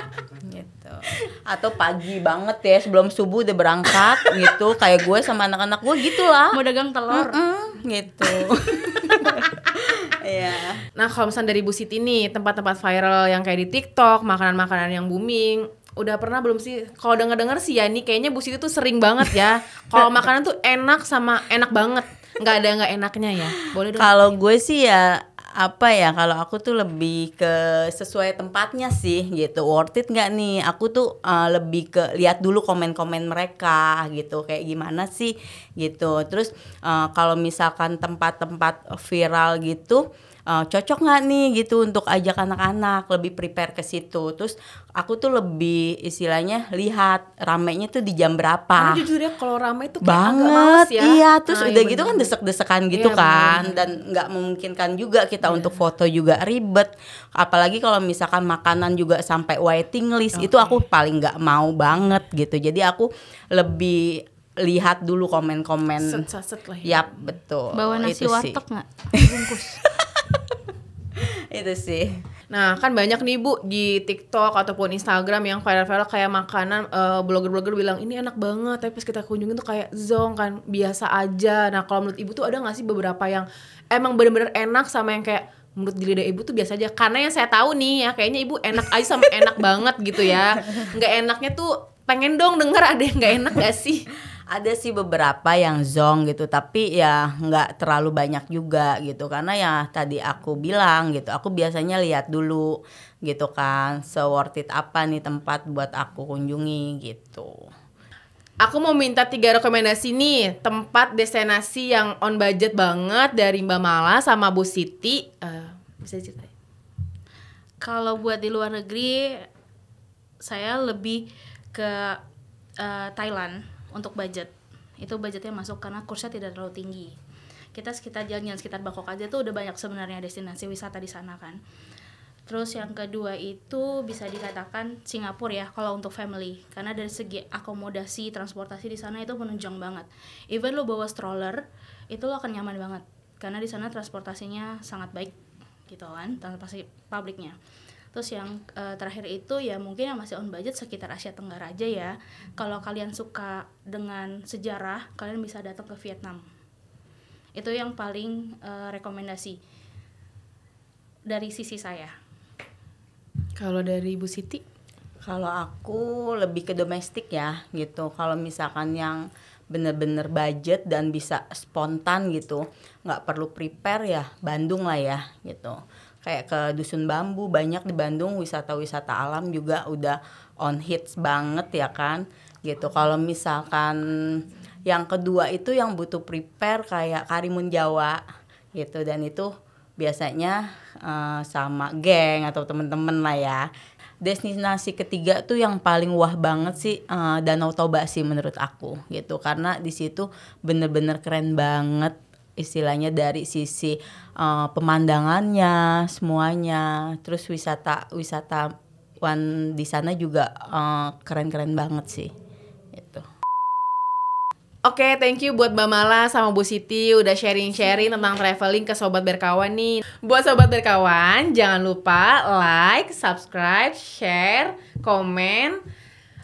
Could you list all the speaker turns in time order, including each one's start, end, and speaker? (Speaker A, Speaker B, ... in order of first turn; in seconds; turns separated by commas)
Speaker A: 0.4-6.6, Speaker B: 6.5-7.4, Speaker A: 7.1-10.8, Speaker C: 10.9-24.2, Speaker A: 23.9-49.0, Speaker C: 48.8-52.3, Speaker A: 50.0-66.2, Speaker C: 52.9-53.7, Speaker C: 55.4-55.8, Speaker C: 60.3-60.8, Speaker C: 66.0-67.0, Speaker A: 66.8-68.6, Speaker B: 67.7-69.8, Speaker A: 69.3-70.4, Speaker A: 71.1-72.1, Speaker C: 72.5-94.1, Speaker A: 94.5-107.6, Speaker C: 108.6-116.5, Speaker B: 117.8-119.5, Speaker B: 120.4-122.2, Speaker B: 122.8-127.1, Speaker B: 127.7-131.6, Speaker B: 132.5-145.3, Speaker B: 145.9-147.5, Speaker B: 148.1-156.4, Speaker B: 157.6-159.6, Speaker B: 161.3-162.1, Speaker C: 163.6-164.6, Speaker A: 165.2-188.2, Speaker A: 188.7-193.7, Speaker A: 194.2-208.7, Speaker A: 209.2-212.3, Speaker A: 212.9-213.2, Speaker C: 214.8-225.8